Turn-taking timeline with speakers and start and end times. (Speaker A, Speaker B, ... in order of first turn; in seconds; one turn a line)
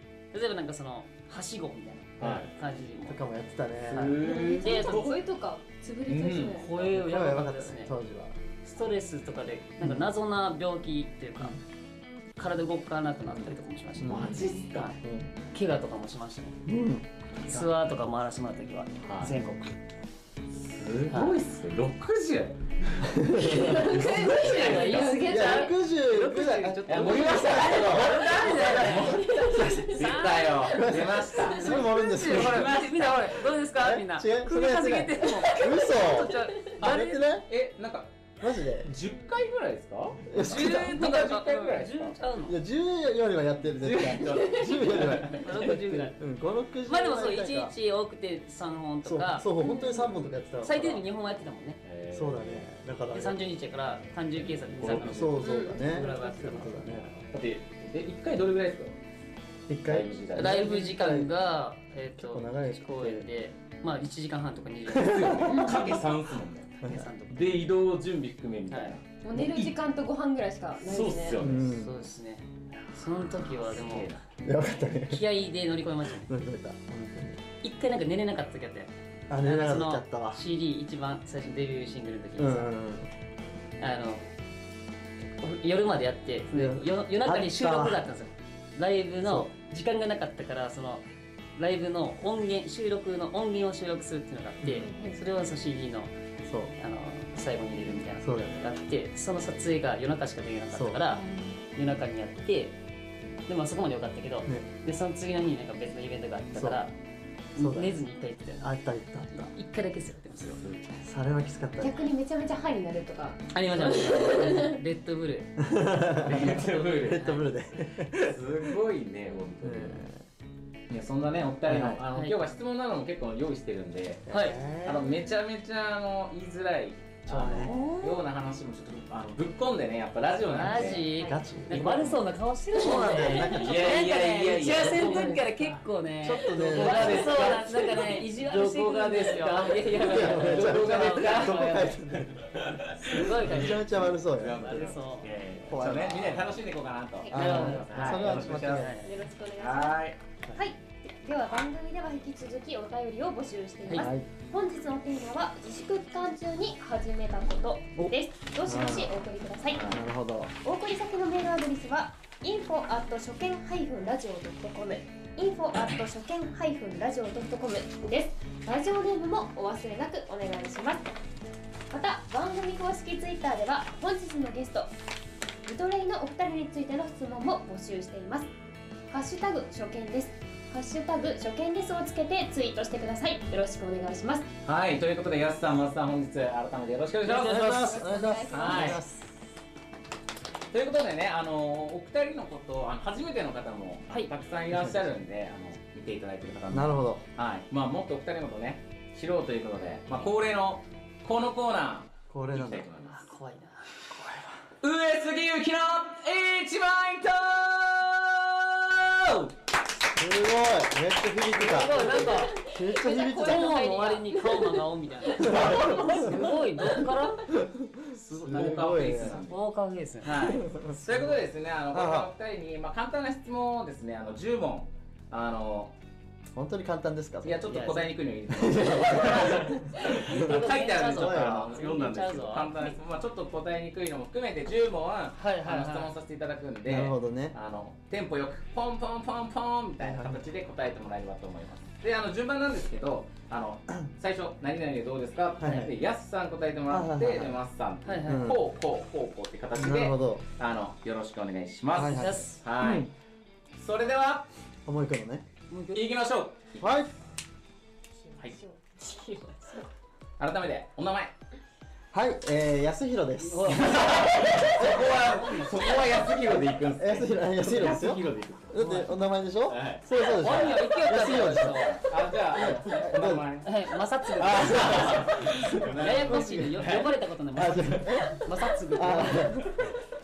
Speaker A: 0.3-3.2
Speaker B: 2.2-2.5
Speaker C: 2.2-2.5
Speaker C: 3.0-4.2
Speaker B: 3.9-5.2
Speaker A: 3.9-5.1
Speaker D: 4.2-6.7
Speaker B: 6.0-6.7
Speaker A: 6.6-7.9
Speaker C: 6.8-8.3
Speaker A: 8.6-11.6
Speaker C: 9.8-10.1
Speaker A: 12.4-15.0
Speaker C: 13.3-14.5
Speaker B: 14.1-14.9
Speaker C: 15.0-15.3
Speaker A: 15.5-16.6
Speaker C: 16.6-17.1
Speaker A: 17.4-19.7
Speaker B: 19.0-19.4
Speaker B: 20.5-23.1
Speaker A: 21.1-21.4
Speaker C: 23.0-30.1
Speaker D: 23.3-25.7
Speaker B: 23.7-25.2
Speaker A: 24.4-29.2
Speaker B: 26.9-31.8
Speaker D: 29.0-29.9
Speaker A: 29.9-30.6
Speaker C: 30.6-33.0
Speaker D: 31.5-32.0
Speaker A: 31.6-37.3
Speaker B: 32.3-33.1
Speaker C: 33.7-37.5
Speaker B: 37.5-38.1
Speaker C: 38.4-38.9
Speaker B: 38.8-42.1
Speaker C: 40.3-41.0
Speaker A: 40.4-42.6
Speaker C: 42.5-47.7
Speaker B: 43.8-45.7
Speaker A: 45.4-46.2
Speaker A: 46.9-49.5
Speaker C: 49.0-51.1
Speaker D: 49.6-50.1
Speaker A: 50.6-51.8
Speaker B: 51.8-52.8
Speaker C: 52.1-53.4
Speaker A: 53.1-57.2
Speaker B: 54.7-55.2
Speaker C: 54.7-57.1
Speaker D: 55.4-55.9
Speaker B: 57.2-58.9
Speaker C: 59.7-61.3
Speaker B: 59.9-60.8
Speaker A: 60.3-65.4
Speaker C: 62.1-63.3
Speaker C: 64.9-65.7
Speaker B: 65.0-66.8
Speaker D: 65.5-65.8
Speaker A: 66.8-67.7
Speaker C: 66.8-67.1
Speaker B: 67.3-69.8
Speaker A: 68.7-68.9
Speaker D: 69.2-71.4
Speaker B: 70.8-71.7
Speaker C: 71.4-71.9
Speaker A: 71.6-74.2
Speaker B: 73.4-74.2
Speaker C: 74.4-75.2
Speaker A: 75.1-76.3
Speaker C: 76.1-77.4
Speaker A: 77.6-82.7
Speaker C: 79.3-80.4
Speaker C: 82.4-83.1
Speaker A: 83.8-84.3
Speaker A: 85.4-91.0
Speaker C: 86.5-88.0
Speaker C: 89.2-89.5
Speaker A: 91.5-96.1
Speaker C: 94.6-94.9
Speaker D: 94.8-95.2
Speaker C: 96.4-96.7
Speaker A: 96.8-101.2
Speaker C: 98.2-98.6
Speaker C: 100.7-101.1
Speaker D: 101.1-101.6
Speaker A: 101.7-102.8
Speaker A: 103.5-106.9
Speaker C: 106.5-106.8
Speaker A: 107.5-108.7
Speaker C: 107.6-108.0
Speaker C: 108.6-109.5
Speaker A: 109.3-110.6
Speaker B: 110.5-110.9
Speaker C: 111.0-112.0
Speaker D: 111.8-114.8
Speaker A: 113.5-117.5
Speaker C: 115.6-118.7
Speaker B: 116.2-117.2
Speaker B: 118.2-120.1
Speaker C: 119.6-120.2
Speaker B: 120.9-124.3
Speaker C: 121.7-122.0
Speaker C: 124.3-125.1
Speaker A: 124.3-124.6
Speaker B: 124.8-131.1
Speaker C: 127.3-127.8
Speaker A: 127.6-128.2
Speaker A: 130.5-141.9
Speaker C: 130.6-135.3
Speaker B: 131.7-132.2
Speaker D: 132.7-133.6
Speaker B: 133.3-135.5
Speaker D: 135.1-135.4
Speaker C: 136.2-137.7
Speaker B: 136.5-148.9
Speaker C: 139.9-145.0
Speaker A: 143.0-143.9
Speaker A: 144.6-145.3
Speaker C: 145.6-146.6
Speaker D: 147.2-147.5
Speaker C: 147.3-149.0
Speaker A: 147.3-149.1
Speaker D: 149.0-150.0
Speaker B: 149.6-150.2
Speaker D: 150.6-159.9
Speaker C: 154.0-154.3
Speaker C: 158.7-159.2
Speaker B: 159.7-160.0
Speaker C: 159.9-160.5
Speaker D: 160.6-171.2
Speaker D: 171.9-174.9
Speaker D: 175.7-178.5
Speaker D: 179.1-184.5
Speaker B: 184.6-188.0
Speaker C: 187.2-189.4
Speaker D: 187.4-189.0
Speaker B: 188.5-189.0
Speaker B: 190.7-203.3
Speaker C: 194.7-195.1
Speaker C: 196.7-197.2
Speaker C: 202.3-202.9
Speaker A: 203.1-203.9
Speaker B: 204.8-209.5
Speaker C: 210.2-214.3
Speaker A: 211.5-212.6
Speaker D: 212.1-216.3
Speaker A: 213.3-217.5
Speaker C: 215.4-216.5
Speaker B: 215.6-216.0
Speaker C: 217.5-219.4
Speaker A: 218.3-218.8
Speaker B: 218.3-219.6
Speaker A: 219.4-220.6
Speaker B: 220.2-225.9
Speaker C: 220.5-221.4
Speaker C: 221.9-222.3
Speaker C: 226.5-227.9
Speaker B: 227.4-253.1
Speaker A: 227.7-228.1
Speaker C: 228.5-231.8
Speaker A: 230.2-233.0
Speaker A: 235.4-236.1
Speaker C: 236.8-237.6
Speaker C: 240.0-240.4
Speaker C: 245.6-245.9
Speaker C: 246.9-247.6
Speaker A: 248.0-248.5
Speaker C: 248.2-248.6
Speaker C: 249.7-250.4
Speaker C: 251.9-253.1
Speaker A: 252.1-252.6
Speaker B: 253.8-254.5
Speaker C: 254.9-255.4
Speaker A: 255.7-256.0
Speaker B: 255.9-256.9
Speaker C: 256.8-257.1
Speaker D: 258.2-259.9
Speaker B: 260.4-261.3
Speaker C: 262.1-265.2
Speaker A: 263.4-265.7
Speaker B: 263.6-268.8
Speaker C: 267.0-272.0
Speaker A: 268.8-269.1
Speaker B: 269.7-273.8
Speaker A: 270.4-272.0
Speaker C: 272.5-273.4
Speaker A: 273.6-279.5
Speaker B: 274.4-277.1
Speaker C: 274.4-276.8
Speaker C: 277.5-279.9